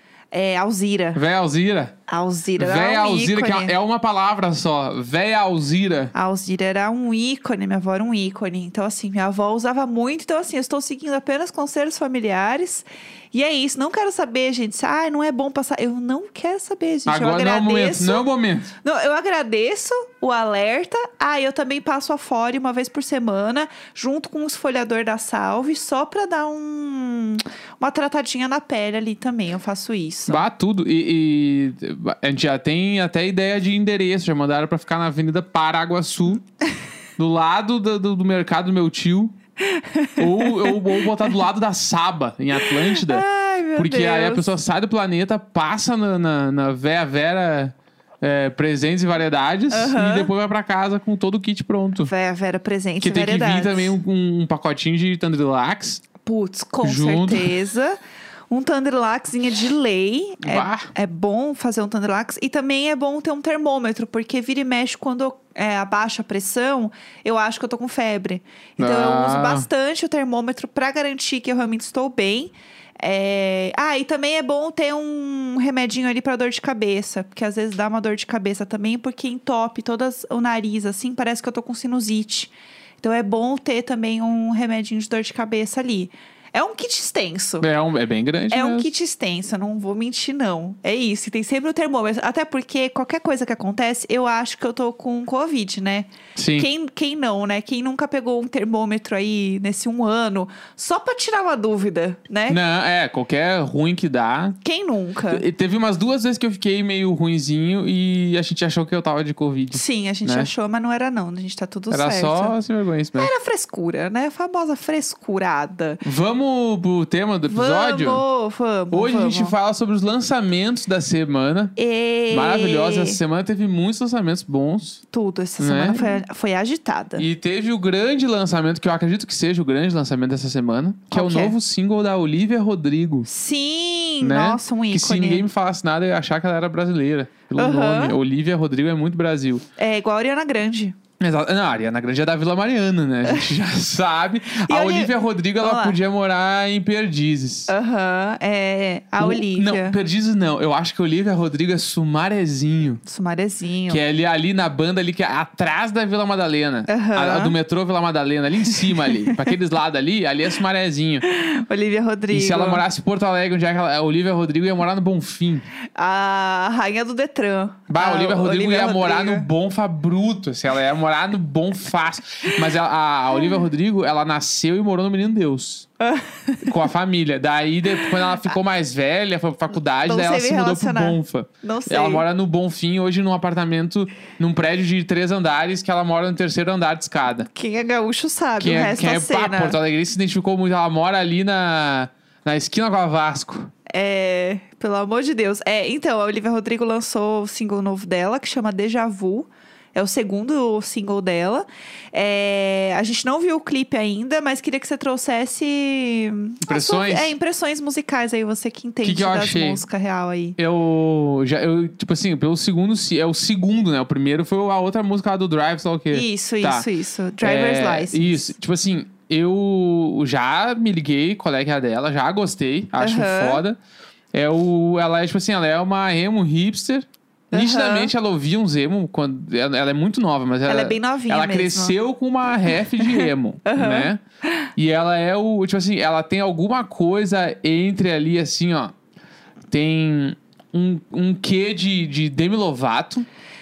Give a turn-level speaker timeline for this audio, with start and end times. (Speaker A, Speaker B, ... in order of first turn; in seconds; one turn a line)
Speaker A: 0.3-1.2
Speaker B: 1.1-2.0
Speaker A: 2.1-3.8
Speaker B: 2.6-6.1
Speaker A: 6.1-18.3
Speaker B: 17.1-18.7
Speaker A: 18.8-30.4
Speaker B: 30.3-36.4
Speaker B: 37.2-39.3
Speaker A: 39.6-41.2
Speaker B: 40.2-43.2
Speaker A: 42.6-44.5
Speaker B: 43.8-52.1
Speaker A: 49.7-50.3
Speaker A: 52.1-54.0
Speaker B: 53.0-56.0
Speaker A: 56.2-58.0
Speaker B: 56.8-57.5
Speaker A: 58.5-87.7
Speaker B: 60.4-60.9
Speaker B: 68.8-69.7
Speaker B: 87.6-88.9
Speaker A: 88.5-102.6
Speaker B: 96.4-96.7
Speaker B: 102.5-104.6
Speaker A: 104.6-105.4
Speaker B: 105.3-110.5
Speaker A: 109.7-112.5
Speaker B: 111.9-113.3
Speaker A: 113.2-116.0
Speaker B: 116.0-118.2
Speaker A: 117.5-119.5
Speaker B: 118.9-121.7
Speaker A: 121.8-123.2
Speaker B: 122.3-125.0
Speaker A: 125.1-127.3
Speaker B: 125.6-126.2
Speaker B: 127.2-133.3
Speaker A: 131.1-131.6
Speaker A: 133.3-135.5
Speaker B: 134.2-139.6
Speaker A: 137.6-138.2
Speaker A: 139.8-141.0
Speaker B: 141.2-147.7
Speaker A: 144.5-146.0
Speaker A: 147.7-150.0
Speaker B: 149.2-153.0
Speaker A: 153.1-154.0
Speaker B: 153.9-161.2
Speaker A: 156.9-157.6
Speaker A: 159.0-159.3
Speaker A: 161.2-162.8
Speaker B: 162.3-165.7
Speaker A: 166.0-169.5
Speaker B: 167.9-175.9
Speaker A: 176.0-176.8
Speaker B: 176.7-187.5
Speaker A: 180.1-182.2
Speaker A: 187.5-189.8
Speaker B: 188.6-193.7
Speaker A: 193.9-210.6
Speaker B: 206.6-207.3
Speaker B: 209.0-209.8
Speaker B: 210.6-216.9
Speaker A: 216.1-218.5
Speaker B: 217.4-223.8
Speaker A: 223.0-223.6
Speaker B: 224.3-234.2
Speaker A: 227.5-228.1
Speaker A: 230.7-232.0
Speaker A: 233.0-234.7
Speaker B: 234.8-238.9
Speaker B: 239.7-243.3